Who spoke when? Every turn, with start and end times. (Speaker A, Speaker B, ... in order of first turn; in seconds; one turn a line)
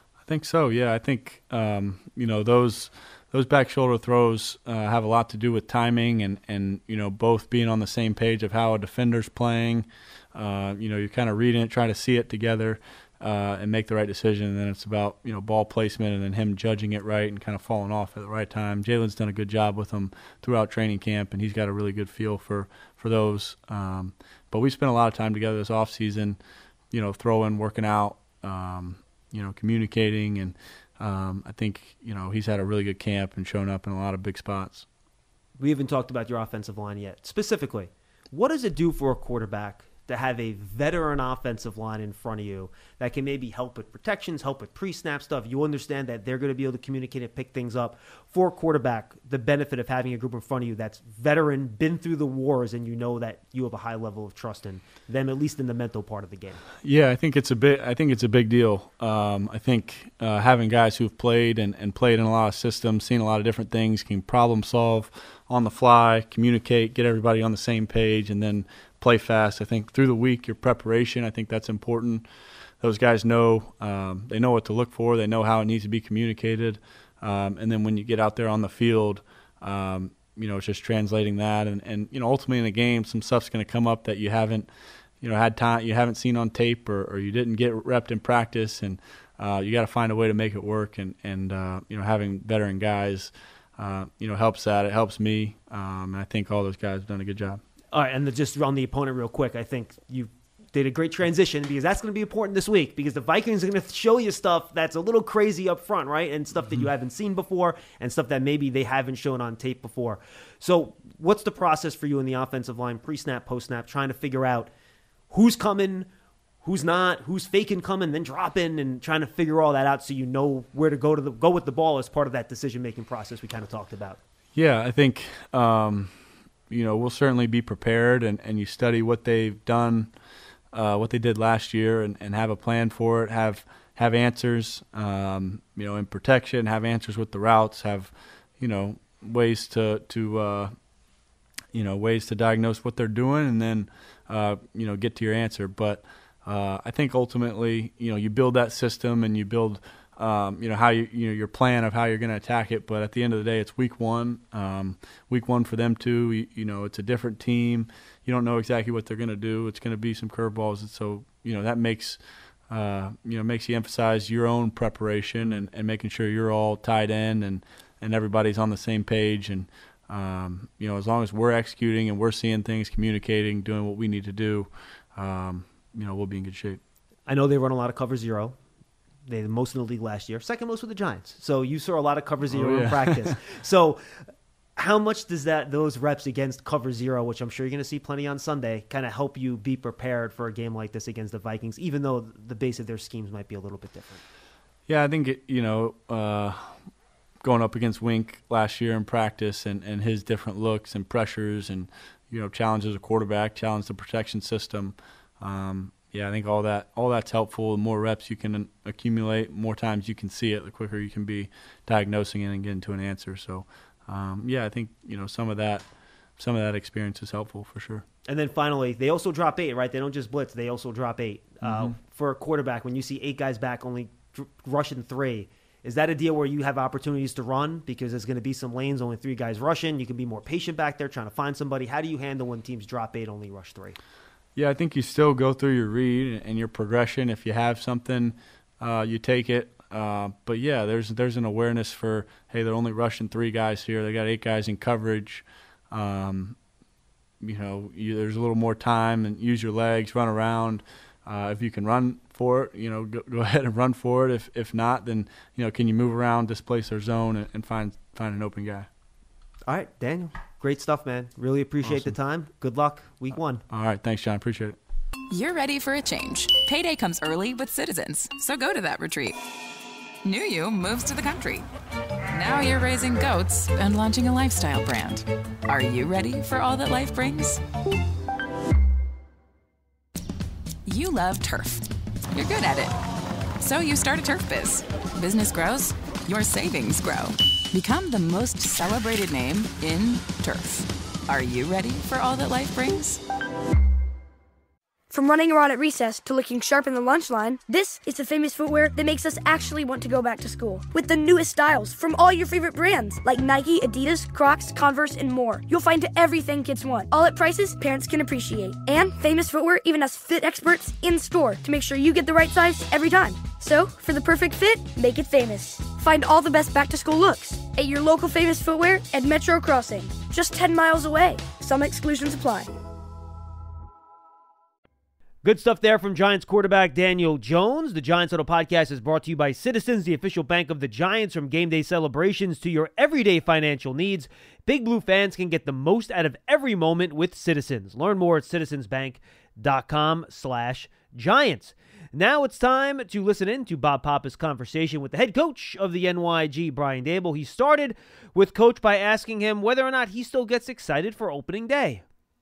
Speaker A: 0.3-26.4
Speaker A: 26.9-34.9
Speaker B: 35.6-56.6
Speaker A: 56.8-72.2
Speaker A: 72.8-97.6
Speaker B: 97.9-114.7
Speaker B: 115.3-116.1
Speaker B: 116.6-124.2
Speaker A: 124.5-126.2
Speaker A: 126.7-130.1
Speaker A: 130.7-140.7
Speaker A: 141.7-176.8
Speaker B: 177.3-178.6
Speaker B: 179.3-184.2
Speaker A: 182.5-183.3
Speaker B: 184.8-194.2
Speaker A: 194.9-196.8
Speaker A: 197.4-215.9
Speaker A: 216.4-218.0
Speaker B: 218.3-234.0
Speaker A: 221.6-221.9
Speaker A: 234.6-246.6
Speaker A: 247.4-258.9
Speaker B: 259.7-263.6
Speaker A: 261.9-262.1
Speaker A: 263.7-264.8
Speaker C: 265.3-269.4
Speaker C: 270.2-271.7
Speaker C: 272.3-277.6
Speaker C: 280.9-283.0
Speaker C: 283.6-293.2
Speaker D: 295.1-322.7
Speaker B: 325.4-352.0